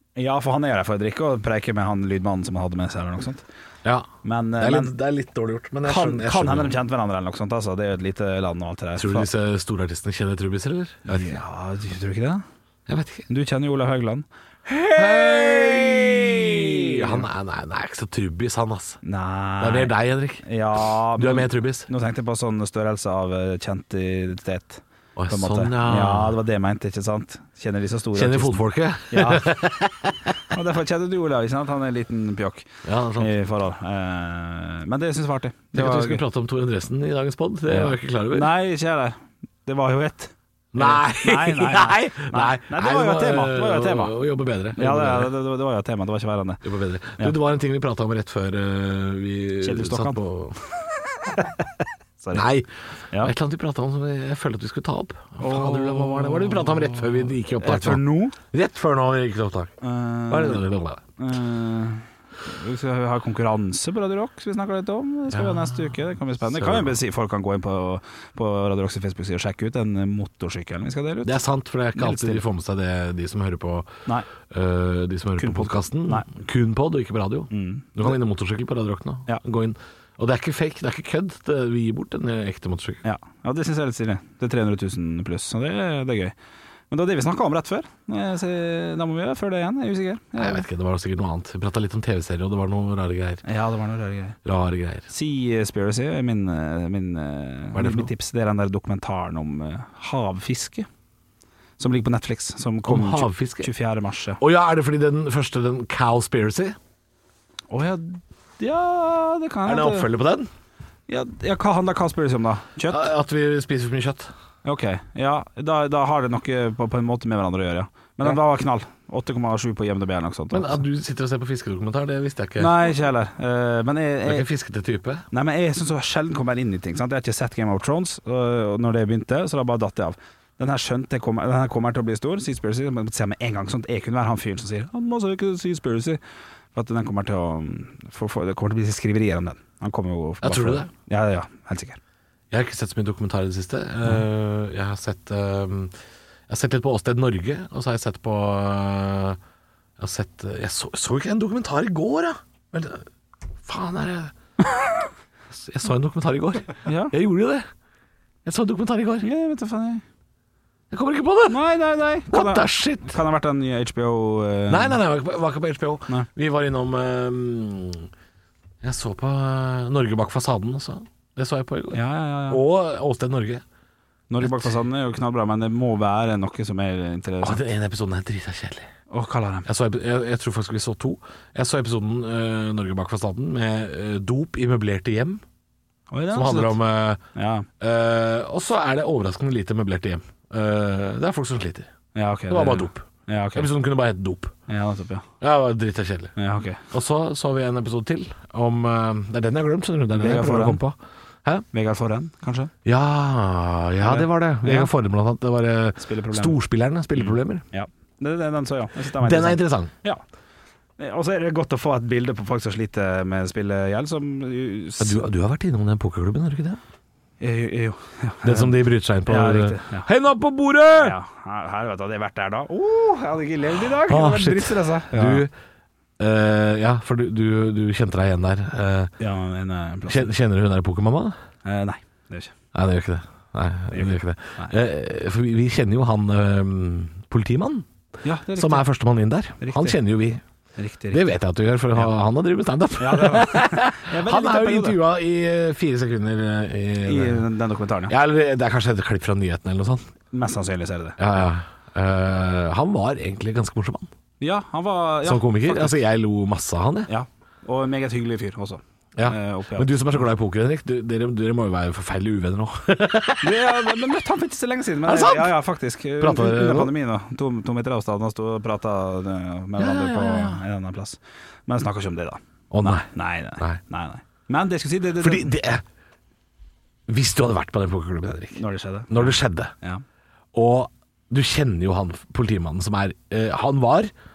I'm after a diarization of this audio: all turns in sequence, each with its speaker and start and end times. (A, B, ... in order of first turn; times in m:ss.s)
0:00.2-0:03.4 A
0:03.8-0:06.8 B
0:04.2-0:04.9 A
0:05.8-0:09.3 A
0:09.0-0:11.4 B
0:11.0-0:12.4 A
0:12.9-0:13.3 B
0:13.3-0:17.3 A
0:15.0-0:19.0 B
0:19.0-0:29.6 A
0:19.6-0:20.4 B
0:21.2-0:21.9 B
0:25.2-0:26.4 B
0:28.1-0:30.3 B
0:30.5-0:32.7 A
0:32.8-0:33.3 B
0:33.2-0:36.2 A
0:35.7-0:38.5 B
0:37.7-0:44.1 A
0:40.7-0:45.3 B
0:44.8-0:46.6 A
0:46.6-0:50.6 B
0:49.6-0:50.2 A
0:51.3-0:51.6 A
0:52.2-0:52.5 A
0:52.3-0:59.7 B
0:55.4-0:58.4 A
0:59.8-1:00.6 A
1:00.3-1:01.0 B
1:01.2-1:11.4 A
1:05.3-1:07.0 B
1:11.2-1:13.9 B
1:11.9-1:12.4 A
1:14.5-1:23.0 B
1:15.4-1:16.3 A
1:17.5-1:18.2 A
1:23.0-1:26.3 A
1:26.9-1:30.6 A
1:30.4-1:33.4 B
1:33.4-1:34.4 A
1:34.4-1:35.0 B
1:35.1-1:40.9 A
1:37.7-1:38.1 B
1:41.8-1:44.4 A
1:42.8-1:43.7 B
1:44.4-1:46.8 B
1:47.7-1:50.1 A
1:49.6-1:50.5 B
1:51.1-1:53.1 A
1:52.9-1:54.3 B
1:54.6-2:00.8 A
2:00.5-2:02.8 B
2:02.6-2:04.4 A
2:04.2-2:05.2 B
2:05.3-2:16.2 A
2:16.7-2:22.0 A
2:20.4-2:20.9 B
2:22.5-2:25.9 B
2:26.5-2:29.4 B
2:30.0-2:33.0 B
2:33.6-2:34.3 B
2:35.5-2:37.7 B
2:36.8-2:37.1 A
2:38.4-2:39.3 B
2:39.2-2:40.0 A
2:40.9-2:41.6 B
2:41.5-2:45.0 A
2:42.3-2:43.2 B
2:44.7-2:48.1 B
2:48.8-2:53.6 B
2:51.9-2:52.6 A
2:54.3-2:57.6 A
2:54.4-2:54.7 B
2:57.4-2:58.9 B
2:59.1-2:59.7 A
2:59.6-3:05.4 B
3:06.1-3:06.8 A
3:06.3-3:07.2 B
3:07.3-3:07.7 A
3:07.8-3:11.9 B
3:12.1-3:13.7 A
3:12.5-3:14.5 B
3:14.7-3:15.2 A
3:15.4-3:16.3 B
3:16.4-3:16.8 A
3:16.9-3:21.6 B
3:20.2-3:20.8 A
3:21.7-3:22.7 A
3:22.8-3:27.6 B
3:24.0-3:24.9 A
3:26.0-3:26.6 A
3:27.2-3:30.2 A
3:29.2-3:29.9 B
3:31.0-3:35.2 A
3:35.0-3:36.8 B
3:37.4-3:38.7 A
3:38.4-3:41.2 B
3:39.2-3:40.1 A
3:40.9-3:45.4 A
3:43.8-3:45.5 B
3:46.2-3:49.1 B
3:49.2-3:50.3 A
3:50.1-3:51.4 B
3:51.6-3:52.5 A
3:52.7-3:57.8 B
3:53.9-3:54.8 A
3:58.2-3:58.9 A
3:58.6-4:00.4 B
3:59.6-4:00.0 A
4:00.8-4:01.2 A
4:01.1-4:07.4 B
4:03.0-4:05.0 A
4:07.0-4:08.1 A
4:08.1-4:10.0 B
4:10.3-4:11.2 A
4:11.2-4:14.1 B
4:14.4-4:16.0 A
4:15.2-4:17.1 B
4:17.1-4:20.2 A
4:19.2-4:23.8 B
4:23.4-4:35.6 A
4:25.0-4:25.6 B
4:26.2-4:26.9 B
4:29.8-4:30.6 B
4:32.7-4:33.8 B
4:35.2-4:35.8 B
4:37.1-4:39.7 B
4:38.5-4:40.0 A
4:40.5-4:44.1 B